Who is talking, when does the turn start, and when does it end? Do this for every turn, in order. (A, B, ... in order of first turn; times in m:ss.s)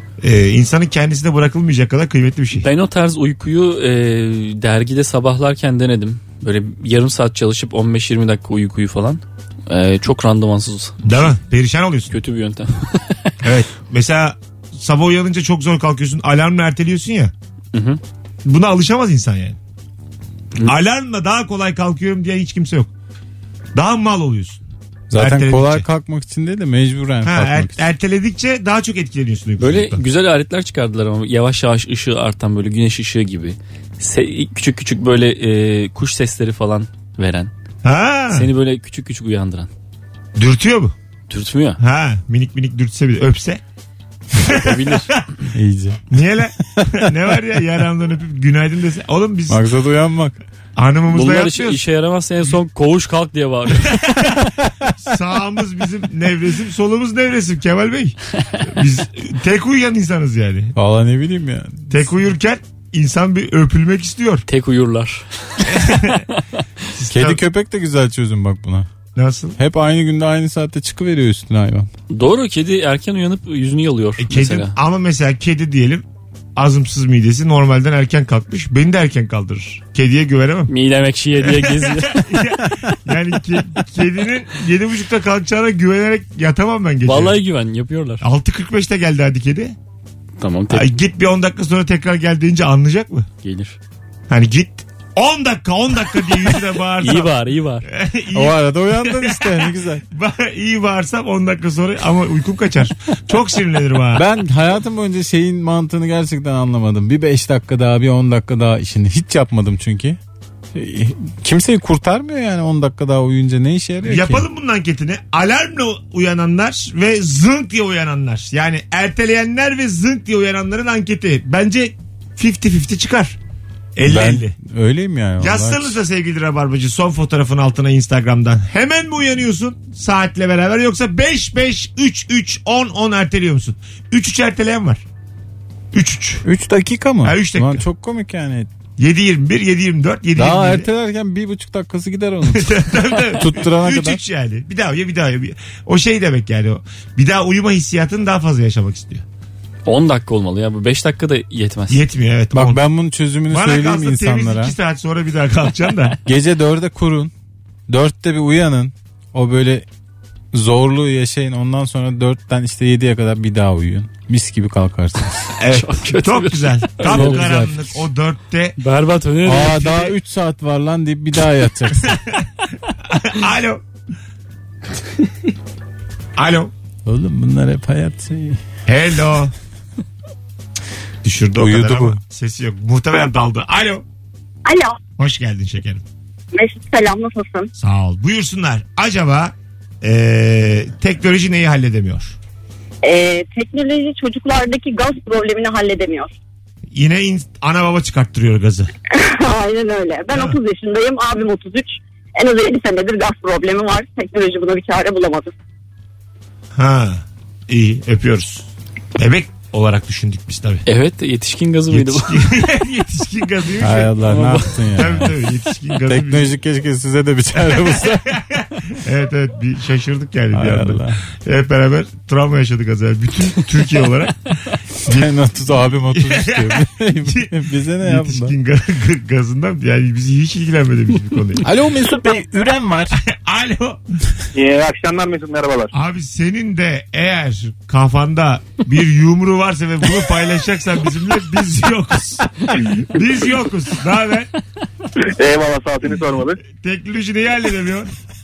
0:00.2-0:02.6 A
0:02.6-0:11.0 B
0:11.0-0:12.1 A
0:12.1-0:13.4 B
0:13.4-0:17.3 A
0:17.7-0:18.0 B
0:18.4-0:19.6 A
0:20.6-0:22.9 A
0:23.7-0:24.6 A
0:25.1-0:27.8 C
0:25.1-0:25.8 A
0:27.2-0:30.0 A
0:29.6-0:37.5 B
0:37.8-0:38.5 A
0:38.3-0:39.7 B
0:40.4-0:40.9 A
0:41.3-0:41.8 B
0:41.8-0:43.6 A
0:44.4-0:45.2 A
0:44.4-0:45.1 B
0:45.5-0:46.0 C
0:46.1-0:49.6 A
0:46.8-0:47.1 C
0:49.5-0:50.4 C
0:50.8-0:51.8 A
0:51.1-0:53.9 B
0:53.8-0:54.4 A
0:55.0-1:00.7 A
1:00.7-1:02.1 C
1:01.9-1:04.4 A
1:04.5-1:06.3 B
1:05.6-1:06.2 A
1:06.9-1:07.4 A
1:07.1-1:08.9 C
1:09.2-1:09.6 A
1:09.6-1:11.9 C
1:12.1-1:14.8 B
1:14.2-1:16.0 A
1:16.6-1:20.7 A
1:20.7-1:22.2 B
1:21.4-1:27.4 A
1:27.0-1:28.2 B
1:28.2-1:29.7 A
1:30.4-1:31.0 B
1:30.7-1:33.3 A
1:33.4-1:33.8 B
1:34.3-1:37.3 A
1:37.0-1:37.8 B
1:37.9-1:44.2 A
1:38.3-1:40.0 C
1:44.1-1:50.2 C
1:50.7-1:54.5 C
1:54.0-2:03.4 A
2:04.0-2:04.5 A
2:04.0-2:06.0 C
2:05.4-2:15.0 A
2:15.9-2:16.4 A
2:16.4-2:18.7 C
2:17.2-2:17.8 A
2:19.0-2:20.9 A
2:20.4-2:22.7 C
2:22.5-2:29.2 A
2:23.3-2:24.2 C
2:29.8-2:32.0 B
2:31.9-2:32.8 A
2:32.5-2:34.7 C
2:33.5-2:36.2 A
2:36.2-2:37.3 C
2:37.9-2:39.8 C
2:40.5-2:45.4 C
2:45.6-2:48.8 A
2:45.7-2:47.4 B
2:47.0-2:48.0 C
2:48.8-2:50.1 B
2:49.4-2:52.2 C
2:53.1-2:53.8 A
2:56.4-2:56.7 A
2:57.0-2:58.6 C
2:58.9-2:59.5 A
3:01.2-3:04.0 A
3:01.6-3:02.2 C
3:04.6-3:05.0 D
3:05.2-3:06.0 A
3:06.5-3:07.7 D
3:07.8-3:12.4 A
3:13.0-3:16.3 D
3:16.9-3:18.9 A
3:19.2-3:25.5 D
3:26.7-3:30.8 A
3:30.8-3:32.4 B
3:31.9-3:34.1 A
3:33.8-3:35.4 C
3:34.2-3:34.7 B
3:34.8-3:36.5 A
3:36.0-3:38.3 C
3:38.3-3:45.3 A
3:40.5-3:41.2 C
3:45.1-3:48.6 C
3:46.1-3:51.6 A
3:51.6-3:53.2 C
3:53.2-3:54.0 A
3:54.5-3:55.9 E
3:55.9-4:04.5 A
4:05.3-4:06.6 E
4:06.7-4:08.1 A